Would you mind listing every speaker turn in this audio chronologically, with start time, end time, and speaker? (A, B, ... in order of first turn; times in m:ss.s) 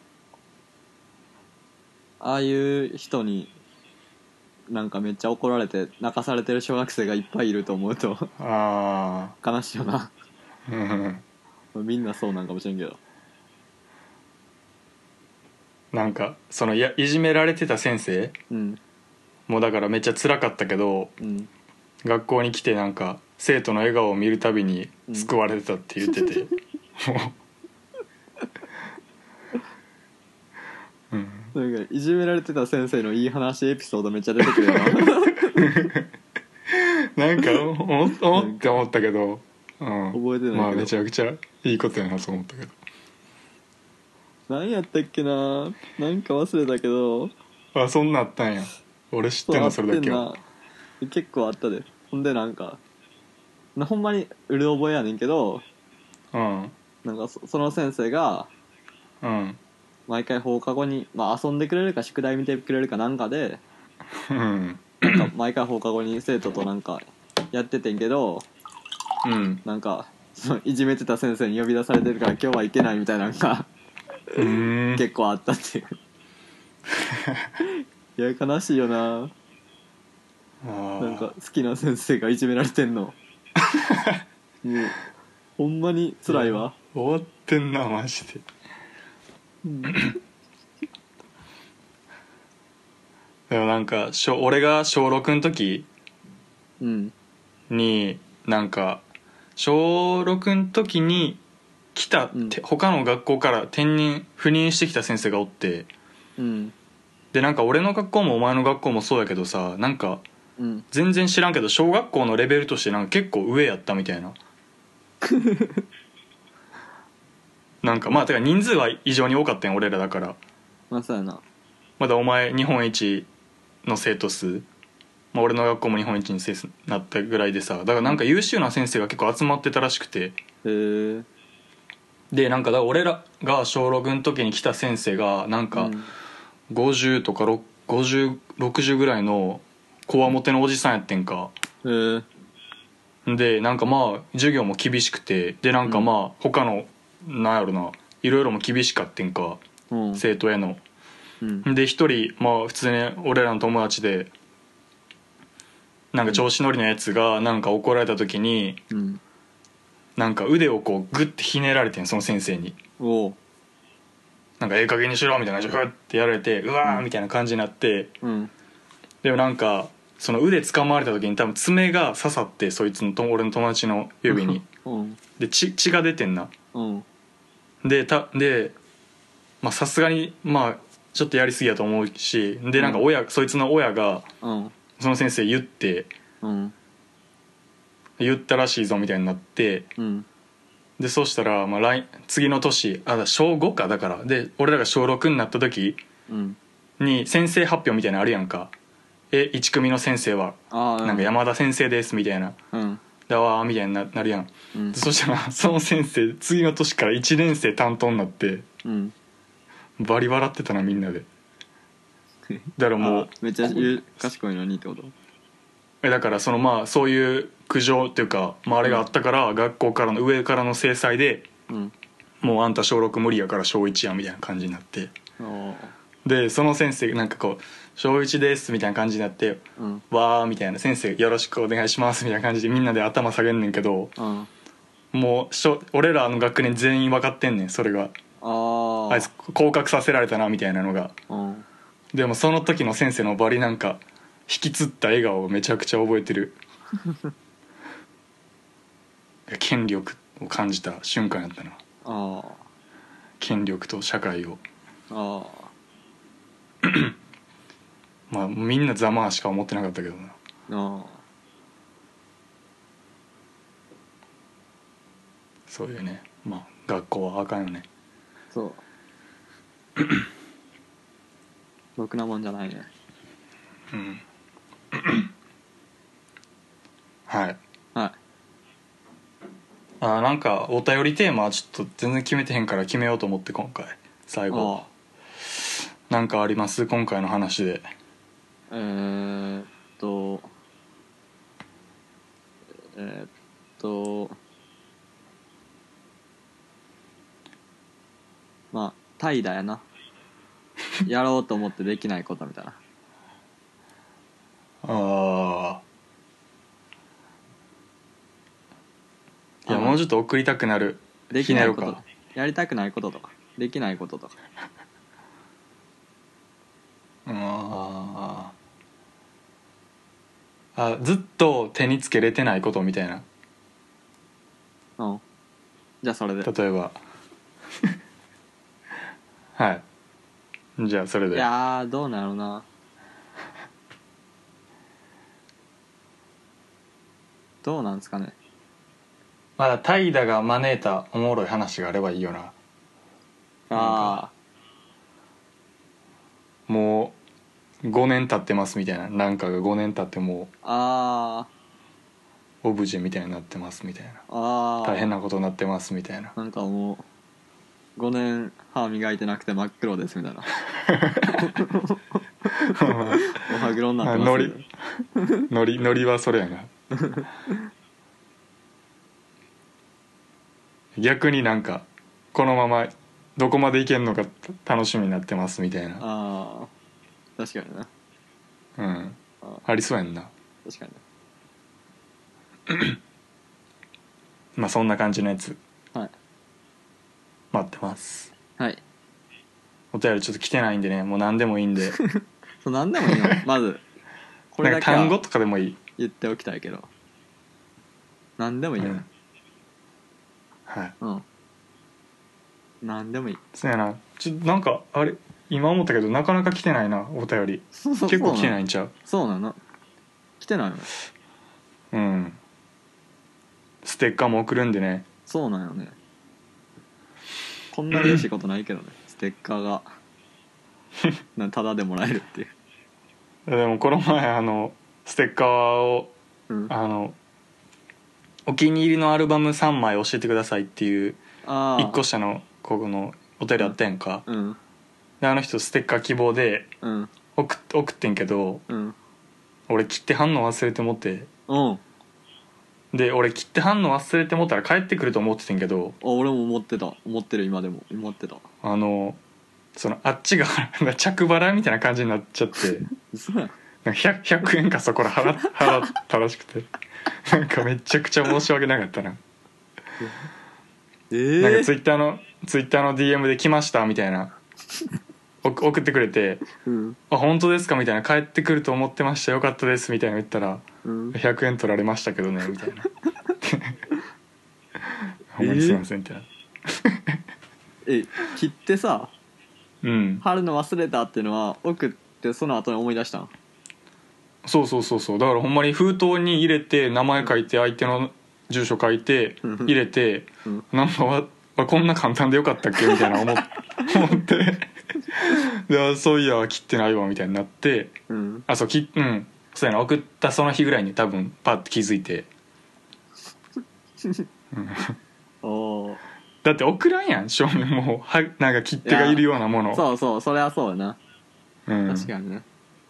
0:02.2-0:03.5 A
0:04.7-0:08.3 A
0:08.4-0:09.3 B
0:09.4-0:10.1 A
0:10.7-0:11.2 B
0:11.7-0:13.0 A
0:15.9-0:18.4 B
0:18.5-0:18.8 A
0:19.5-0:21.1 B
0:21.2-0:21.5 A
0:22.0-0:27.3 B
0:31.1-0:31.5 B
0:31.5-0:35.7 A
0:34.6-0:36.1 B
0:36.7-0:42.8 B
0:38.3-0:38.8 A
0:40.1-0:40.9 A
0:44.5-0:47.3 A
0:47.7-0:50.3 B
0:49.5-0:50.4 A
0:51.0-0:52.8 A
0:53.8-0:55.6 A
0:56.3-0:56.7 B
0:57.0-0:58.5 A
0:59.2-0:59.6 B
1:00.1-1:03.6 A
1:04.2-1:05.3 B
1:05.0-1:08.5 A
1:09.2-1:09.6 B
1:09.6-1:13.7 A
1:14.3-1:15.9 A
1:14.4-1:15.0 B
1:17.0-1:17.5 B
1:17.6-1:19.3 A
1:20.6-1:21.3 B
1:21.0-1:23.2 A
1:23.7-1:24.2 B
1:24.6-1:25.0 A
1:25.6-1:26.7 A
1:26.3-1:28.4 B
1:29.6-1:30.1 A
1:29.9-1:30.1 B
1:33.5-1:35.9 B
1:36.8-1:37.1 A
1:37.7-1:39.0 B
1:39.6-1:41.4 B
1:41.9-1:45.9 B
1:42.3-1:42.6 A
1:46.4-1:46.7 A
1:47.3-1:50.2 B
1:50.6-1:50.8 A
1:50.9-1:54.4 B
1:55.2-1:55.8 A
1:57.8-2:00.4 B
2:00.9-2:01.4 A
2:02.0-2:03.3 B
2:03.8-2:04.7 B
2:05.3-2:10.4 B
2:10.6-2:11.2 A
2:12.3-2:15.9 B
2:15.7-2:16.1 A
2:16.7-2:21.5 B
2:21.8-2:22.3 A
2:23.2-2:29.6 B
2:25.8-2:26.1 A
2:29.9-2:30.2 A
2:30.2-2:30.8 B
2:31.4-2:31.7 A
2:31.6-2:34.3 B
2:36.1-2:38.8 B
2:38.9-2:39.2 A
2:40.2-2:42.8 B
2:43.0-2:43.4 A
2:44.6-2:48.1 B
2:48.2-2:48.5 A
2:49.2-2:54.6 B
2:54.3-2:55.2 A
2:55.4-2:56.5 B
2:56.7-2:57.0 A
2:57.8-2:58.8 B
2:59.6-3:04.3 B
3:02.8-3:03.0 A
3:04.4-3:04.7 A
3:05.0-3:06.1 B
3:06.4-3:06.7 A
3:08.2-3:09.9 B
3:10.0-3:10.3 A
3:11.0-3:16.0 B
3:16.3-3:16.6 A
3:17.0-3:18.7 B
3:19.3-3:22.6 B
3:20.7-3:21.3 A
3:22.7-3:23.0 A
3:23.3-3:28.6 B
3:24.7-3:25.0 A
3:28.8-3:29.1 A
3:30.0-3:31.3 B
3:32.5-3:35.1 A
3:32.8-3:34.2 B
3:36.0-3:41.5 B
3:42.4-3:45.1 B
3:45.4-3:45.9 A
3:46.2-3:54.1 B
3:49.8-3:50.0 A
3:54.2-3:54.5 A
3:55.1-3:58.1 B
3:58.4-3:59.3 A
3:59.1-4:01.1 B
4:01.3-4:01.6 A
4:02.1-4:06.6 B
4:09.5-4:11.8 B
4:12.0-4:12.6 A
4:13.4-4:14.6 B
4:15.1-4:15.7 A
4:16.8-4:17.1 B
4:18.3-4:20.4 B
4:20.7-4:21.2 A
4:25.7-4:27.9 B
4:28.5-4:28.8 A
4:32.0-4:32.9 A
4:33.9-4:34.2 B
4:34.9-4:35.3 B
4:37.3-4:37.6 B
4:40.0-4:44.8 B
4:44.5-4:44.9 A
4:45.6-4:47.9 B
4:48.7-4:50.5 A
4:52.9-4:54.4 A
4:58.7-4:59.8 A
5:01.0-5:02.8 A
5:04.8-5:05.8 B
5:09.6-5:12.0 B
5:09.7-5:10.0 A
5:11.3-5:14.4 A
5:17.2-5:18.5 B
5:20.7-5:23.2 B
5:26.0-5:26.5 A
5:26.4-5:27.0 B
5:29.6-5:29.8 B
5:30.8-5:31.5 B
5:31.3-5:32.6 A
5:37.6-5:38.4 A
5:39.6-5:42.5 B
5:43.7-5:44.3 A
5:43.7-5:44.2 B
5:46.7-5:47.2 B
5:47.8-5:50.5 B
5:50.6-5:51.5 A
5:52.6-5:54.2 B
5:54.3-5:55.1 A
5:54.8-5:56.3 B
5:56.4-5:57.0 A
5:58.0-6:00.5 A
6:00.8-6:01.5 B
6:01.2-6:04.6 A
6:02.7-6:03.3 B
6:04.0-6:04.7 B
6:05.5-6:06.7 B
6:06.9-6:07.6 A
6:11.0-6:16.0 B
6:16.0-6:16.7 A
6:17.4-6:17.9 A
6:18.8-6:20.3 B
6:20.6-6:21.0 A
6:22.7-6:23.0 B
6:24.6-6:25.6 B
6:27.5-6:28.3 B
6:29.9-6:32.0 B
6:32.1-6:33.8 A
6:34.5-6:35.2 A
6:34.6-6:35.8 B
6:36.0-6:36.9 A
6:38.4-6:39.1 A
6:38.8-6:39.0 B
6:40.7-6:40.9 B
6:42.8-6:43.4 A
6:43.5-6:48.9 B
6:47.8-6:49.6 A
6:50.4-6:50.9 A
6:51.9-6:52.4 B
6:53.8-6:55.0 B
6:55.3-6:56.0 A
6:57.7-6:59.9 A
6:57.9-6:58.2 B
7:01.4-7:02.5 A
7:03.5-7:06.1 B
7:06.7-7:07.2 B
7:08.5-7:11.2 B
7:11.4-7:12.0 A
7:11.8-7:14.2 B
7:14.2-7:14.6 A
7:15.2-7:16.7 B
7:16.8-7:17.1 A
7:17.3-7:18.6 B
7:18.7-7:18.9 A
7:19.7-7:21.3 B
7:21.5-7:21.8 A
7:22.9-7:26.0 B
7:26.0-7:28.5 A
7:28.6-7:29.2 B
7:29.7-7:32.9 B
7:33.0-7:33.6 A
7:33.8-7:36.7 B
7:37.2-7:39.2 B
7:41.1-7:41.7 A
7:41.4-7:44.3 B
7:45.4-7:46.4 B
7:46.6-7:47.0 A
7:47.1-7:52.9 B
7:50.8-7:51.2 A
7:53.4-7:53.8 B
7:55.3-7:57.2 B
7:55.4-7:55.8 A
7:57.8-7:59.1 A
7:59.8-8:00.2 B
8:00.2-8:03.3 A
8:04.4-8:18.0 B
8:09.4-8:09.7 A
8:12.8-8:13.9 A
8:18.1-8:18.4 A
8:18.5-8:22.3 B
8:24.5-8:25.0 B
8:25.4-8:26.0 A
8:26.4-8:29.8 B
8:28.8-8:31.0 A
8:31.7-8:32.1 B
8:31.8-8:32.4 A